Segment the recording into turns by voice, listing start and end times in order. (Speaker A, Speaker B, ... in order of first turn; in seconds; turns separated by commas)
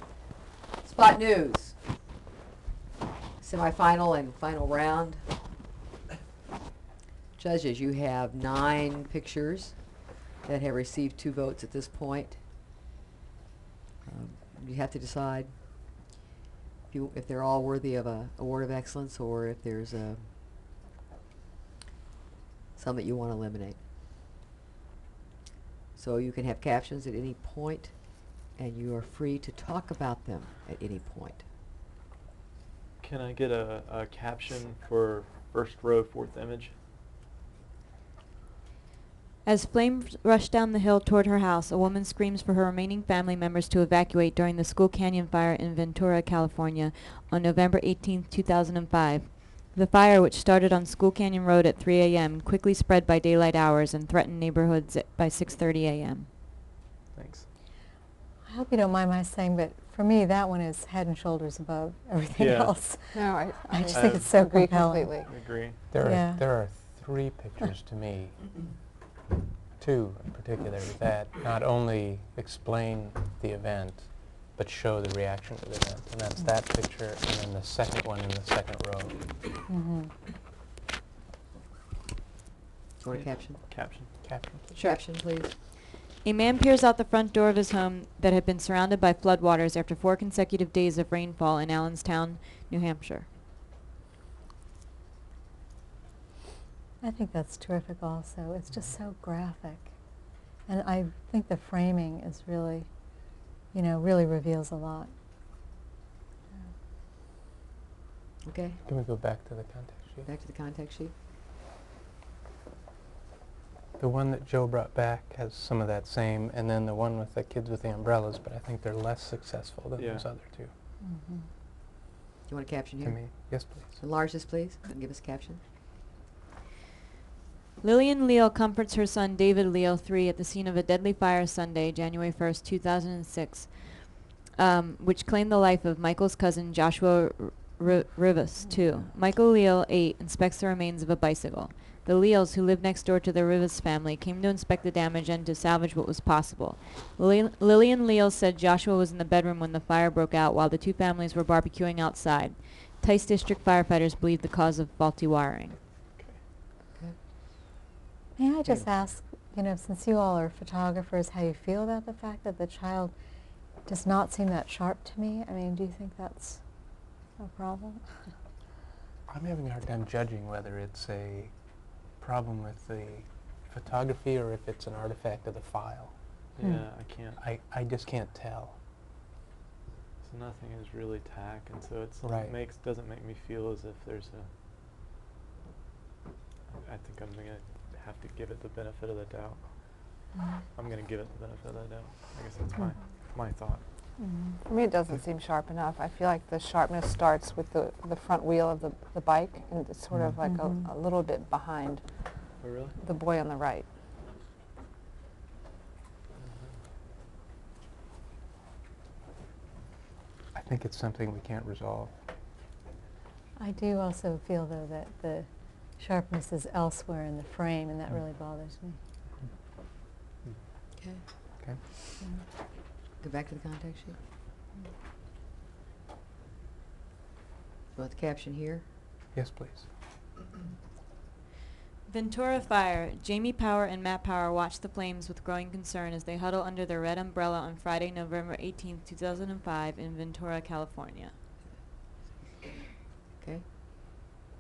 Speaker A: 0.8-1.8, Speaker A: 3.4-5.2, Speaker A: 7.4-9.8, Speaker A: 10.4-12.4, Speaker A: 14.1-15.5, Speaker A: 16.9-20.3, Speaker A: 22.8-23.8, Speaker A: 26.0-27.9, Speaker A: 28.6-31.4, Speaker B: 33.0-36.8, Speaker C: 39.5-56.3, Speaker B: 57.1-57.5, Speaker D: 58.5-65.2, Speaker B: 62.4-62.8, Speaker E: 63.1-65.3, Speaker B: 63.9-64.3, Speaker B: 65.3-65.8, Speaker F: 65.9-68.6, Speaker D: 66.0-66.4, Speaker F: 69.8-79.2, Speaker D: 79.7-80.1, Speaker A: 83.0-83.6, Speaker B: 83.1-84.1, Speaker F: 84.2-84.6, Speaker C: 84.8-85.0, Speaker A: 84.8-85.5, Speaker C: 86.2-93.3, Speaker D: 97.0-99.9, Speaker D: 100.7-102.9, Speaker D: 103.7-105.1, Speaker A: 108.5-108.8, Speaker F: 108.9-110.3, Speaker A: 110.3-111.1, Speaker F: 114.0-120.7, Speaker B: 120.0-120.2, Speaker D: 121.0-121.5, Speaker A: 122.5-123.2, Speaker F: 123.0-124.0, Speaker A: 124.0-125.6, Speaker C: 127.8-155.8, Speaker D: 158.4-163.1, Speaker D: 163.9-166.6, Speaker D: 167.4-168.1, Speaker F: 169.3-171.5, Speaker F: 172.2-176.1, Speaker B: 176.6-177.4, Speaker F: 177.4-178.8, Speaker B: 180.2-184.5, Speaker F: 182.2-182.5, Speaker B: 186.7-189.6, Speaker D: 190.4-190.6, Speaker B: 190.8-193.8, Speaker D: 194.2-194.6, Speaker E: 194.7-202.0, Speaker D: 200.4-200.9, Speaker B: 202.6-203.0, Speaker E: 203.0-203.9, Speaker B: 206.4-206.7, Speaker F: 210.5-212.1, Speaker D: 213.6-215.5, Speaker D: 216.0-219.0, Speaker A: 221.0-221.2, Speaker A: 223.2-224.2, Speaker A: 228.0-228.8, Speaker F: 229.3-229.9, Speaker C: 232.1-241.3